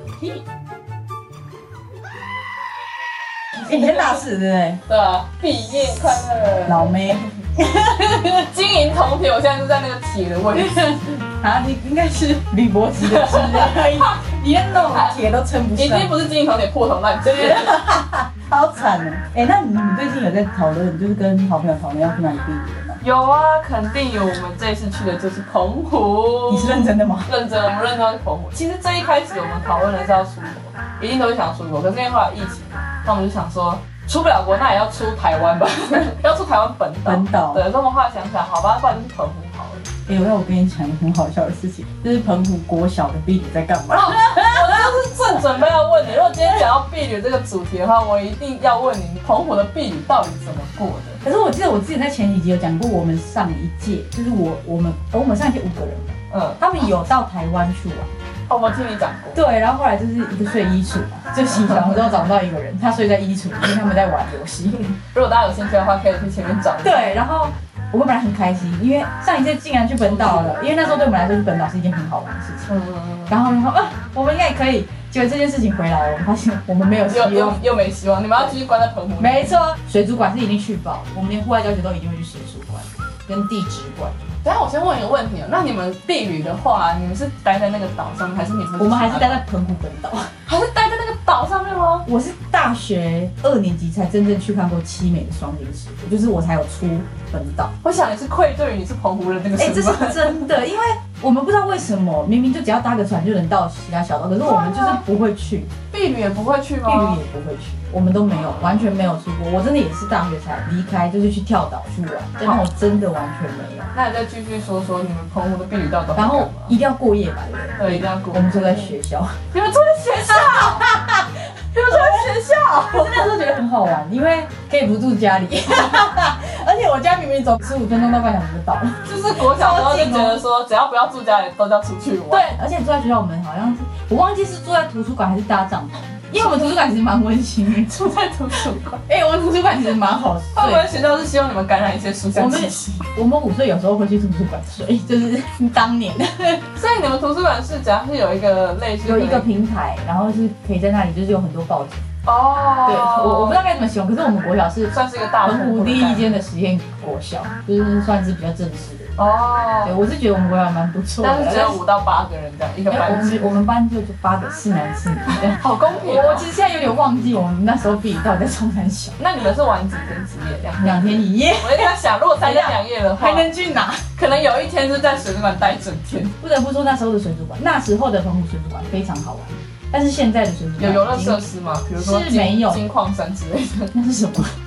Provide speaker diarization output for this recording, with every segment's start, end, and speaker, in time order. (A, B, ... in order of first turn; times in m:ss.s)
0:03.6-0:04.2 A
0:03.7-0:04.8 B
0:04.9-0:07.3 A
0:06.7-0:08.5 B
0:08.4-0:11.0 A
0:10.5-0:16.2 B
0:13.0-0:14.1 A
0:14.9-0:15.2 A
0:15.8-0:17.8 A
0:17.3-0:23.0 B
0:23.0-0:39.9 A
0:26.5-0:27.3 B
0:37.0-0:37.6 B
0:40.1-0:45.4 B
0:43.9-0:51.2 A
0:51.2-0:58.1 B
0:56.3-0:56.6 A
0:58.5-0:59.4 A
0:59.4-1:05.0 B
1:05.1-1:07.2 A
1:06.8-1:12.7 B
1:10.0-1:10.6 A
1:12.7-1:13.4 A
1:13.3-1:17.6 B
1:17.1-1:19.6 A
1:19.2-1:24.2 B
1:24.4-1:29.4 A
1:28.8-1:30.3 B
1:30.5-1:32.1 A
1:32.1-1:37.7 B
1:37.8-1:40.5 A
1:39.6-1:45.7 B
1:44.5-1:45.0 A
1:45.9-1:47.2 A
1:46.8-1:53.9 B
1:53.9-1:56.8 A
1:56.2-1:59.4 B
1:57.8-1:58.9 A
1:59.5-2:01.0 A
2:00.3-2:10.4 B
2:01.7-2:03.3 A
2:09.0-2:12.5 A
2:12.3-2:20.9 B
2:17.9-2:19.0 A
2:20.6-2:23.0 A
2:22.3-2:26.6 B
2:26.8-2:29.5 A
2:29.0-2:32.0 B
2:32.2-2:33.6 A
2:32.8-2:39.1 B
2:34.9-2:36.4 A
2:39.2-2:40.0 A
2:39.8-2:41.8 B
2:41.2-2:43.5 A
2:42.9-2:49.2 B
2:45.6-2:46.5 A
2:49.2-2:53.5 A
2:50.8-2:54.0 B
2:54.2-2:56.4 A
2:56.4-3:01.4 B
3:00.8-3:03.9 A
3:01.9-3:02.8 B
3:03.9-3:04.5 B